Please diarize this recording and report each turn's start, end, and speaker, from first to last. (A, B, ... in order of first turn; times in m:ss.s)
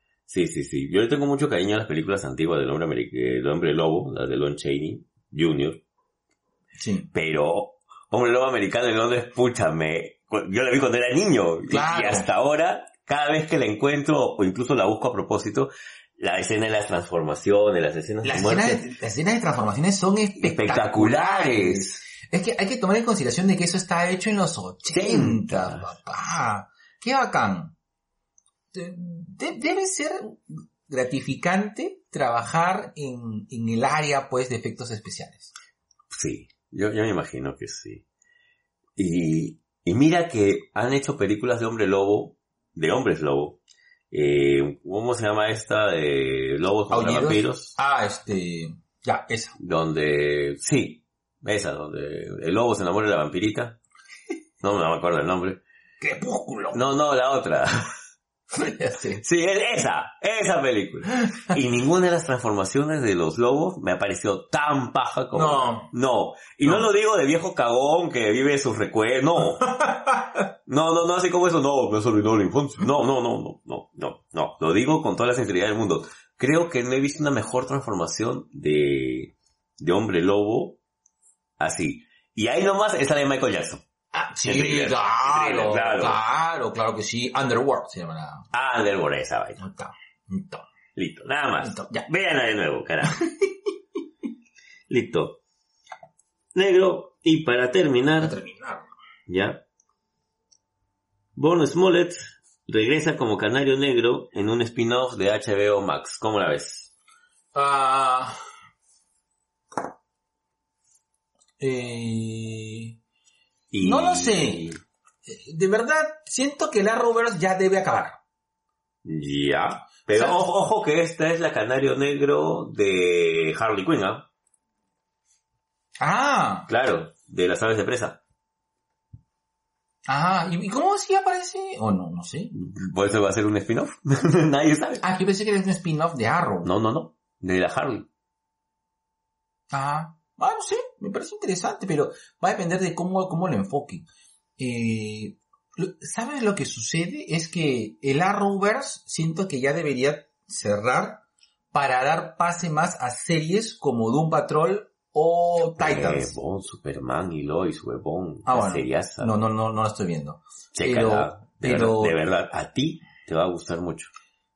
0:00.3-0:05.8 A
0:06.8-0:07.1 B
0:07.1-0:18.9 A
0:11.7-0:12.3 B
0:18.2-0:27.7 B
0:20.4-0:22.0 A
0:24.9-0:25.9 A
0:28.7-0:35.5 B
0:36.1-0:38.0 A
0:39.0-0:43.6 A
0:44.1-0:47.8 A
0:46.9-0:49.5 B
0:49.6-0:53.8 A
0:54.6-0:55.6 A
0:56.0-0:56.8 B
0:56.7-0:57.9 A
0:58.5-0:59.2 B
0:59.2-1:09.8 A
1:05.3-1:05.9 B
1:09.8-1:10.1 B
1:10.6-1:20.8 A
1:21.6-1:23.8 A
1:24.1-1:28.4 B
1:24.4-1:26.2 A
1:28.5-1:29.6 A
1:29.6-1:30.6 B
1:31.0-1:33.2 A
1:31.6-1:32.0 B
1:34.9-1:35.4 A
1:36.5-1:38.4 A
1:38.2-1:38.9 B
1:39.3-1:39.6 A
1:41.3-1:46.9 A
1:47.5-1:48.4 B
1:51.6-1:52.9 B
1:53.7-1:54.8 A
1:53.8-1:54.7 B
1:55.3-1:58.2 B
1:59.0-2:04.3 A
2:00.1-2:00.4 B
2:06.0-2:06.7 B
2:06.7-2:08.2 A
2:10.1-2:12.5 B
2:12.5-2:15.0 A
2:15.0-2:16.7 B
2:16.6-2:18.1 A
2:19.7-2:24.0 B
2:24.6-2:36.3 B
2:35.8-2:39.3 A
2:38.4-2:42.2 B
2:40.7-2:44.1 A